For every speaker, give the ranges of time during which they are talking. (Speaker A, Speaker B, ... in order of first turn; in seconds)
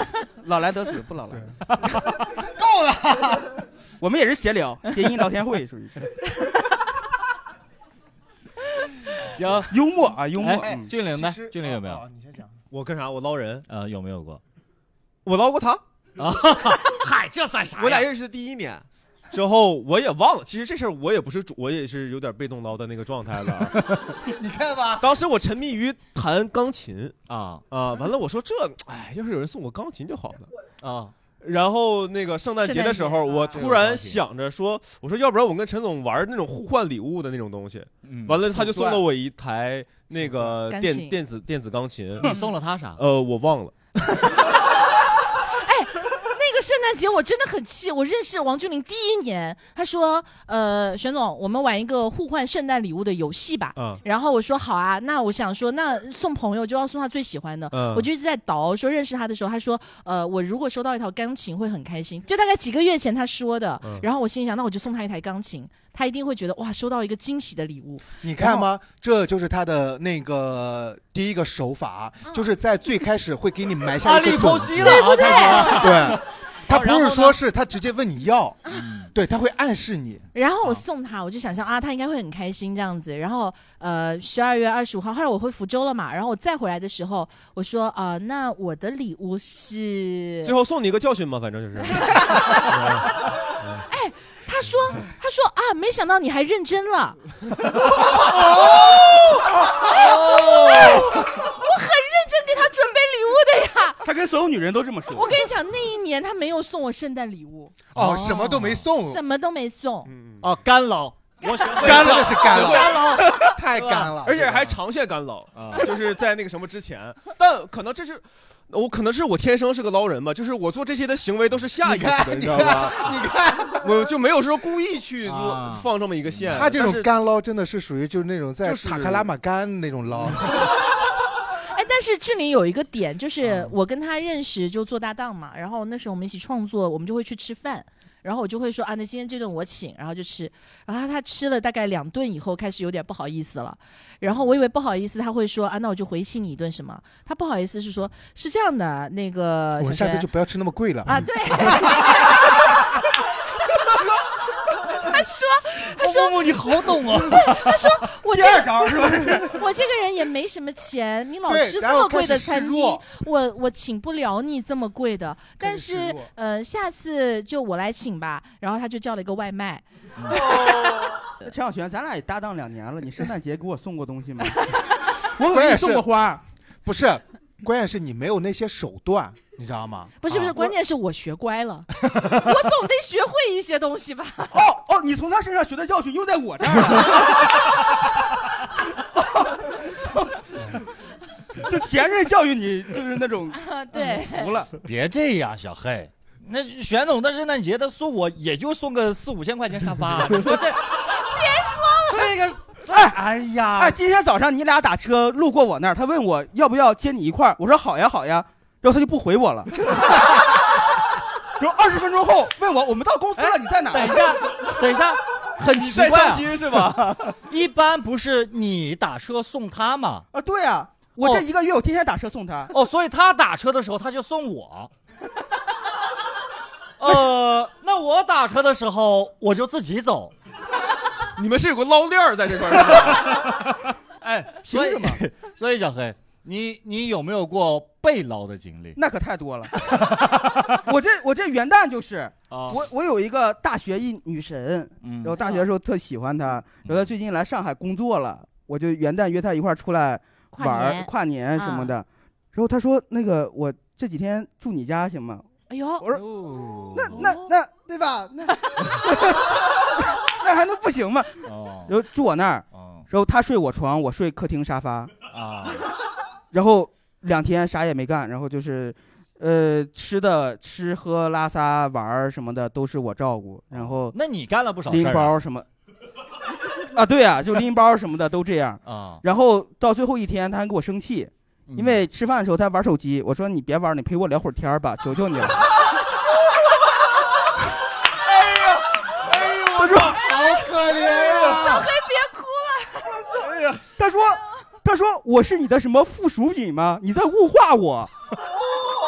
Speaker A: 0.4-1.6, 4.0-6.1, 9.7-10.9, 104.0-105.3, 158.3-159.6, 171.4-176.4, 184.5-187.4, 189.2-189.7, 191.6-194.7, 202.9-203.2, 203.7-209.7, 211.6-214.2, 220.3-222.7, 234.7-235.2, 239.0-239.7, 240.9-255.5, 256.9-259.5, 260.3-261.4, 261.9-265.1, 266.5-274.2, 274.9-275.7, 276.9-285.6, 289.8-290.3, 293.9-298.1
Speaker B: 1.7-2.3, 9.2-9.7, 10.4-12.0, 13.7-14.4, 16.2-18.1, 27.3-27.6, 30.8-31.1, 33.5-34.2, 38.0-38.5, 42.2-43.0, 74.0-77.4, 78.7-79.1, 99.8-101.2, 108.0-108.8, 110.4-114.1, 115.5-115.9, 125.2-125.9, 155.9-158.2, 194.8-200.8, 202.0-204.0, 213.4-220.3, 221.2-221.4, 222.7-224.9, 227.0-230.3, 233.1-239.0, 239.7-240.9, 242.5-242.8, 245.0-245.4, 246.8-247.1, 256.1-257.4, 261.4-261.9, 262.7-263.1, 265.3-265.9, 273.7-275.4, 278.9-279.2, 281.7-282.1
Speaker C: 2.5-3.5, 10.7-12.6, 24.2-25.1, 38.6-39.0, 68.2-80.3, 108.0-109.2, 111.8-114.7, 121.8-123.9, 126.5-130.5, 149.8-152.1, 161.5-163.1, 165.6-166.3, 175.4-176.1, 176.8-180.2, 289.2-291.9
Speaker D: 12.7-13.7, 15.2-15.8, 17.8-23.9, 25.0-27.2, 27.7-30.5, 31.4-42.3, 43.0-43.7, 53.8-54.0, 57.7-58.1, 90.4-93.1, 110.1-110.4, 111.9-112.8, 114.2-123.1, 123.8-127.1, 128.6-129.3, 215.7-217.2, 231.4-233.4
Speaker E: 32.6-33.7, 40.7-41.2, 45.6-68.6, 74.9-76.2, 80.3-90.5, 91.9-92.7, 93.9-97.2, 97.7-104.0, 105.1-107.8, 109.0-110.1, 131.7-150.3, 151.1-153.0, 154.9-170.5, 180.2-184.6, 193.5-194.5, 201.3-202.2, 245.3-245.7, 250.5-251.9, 255.7-256.1, 257.1-257.5, 291.0-293.4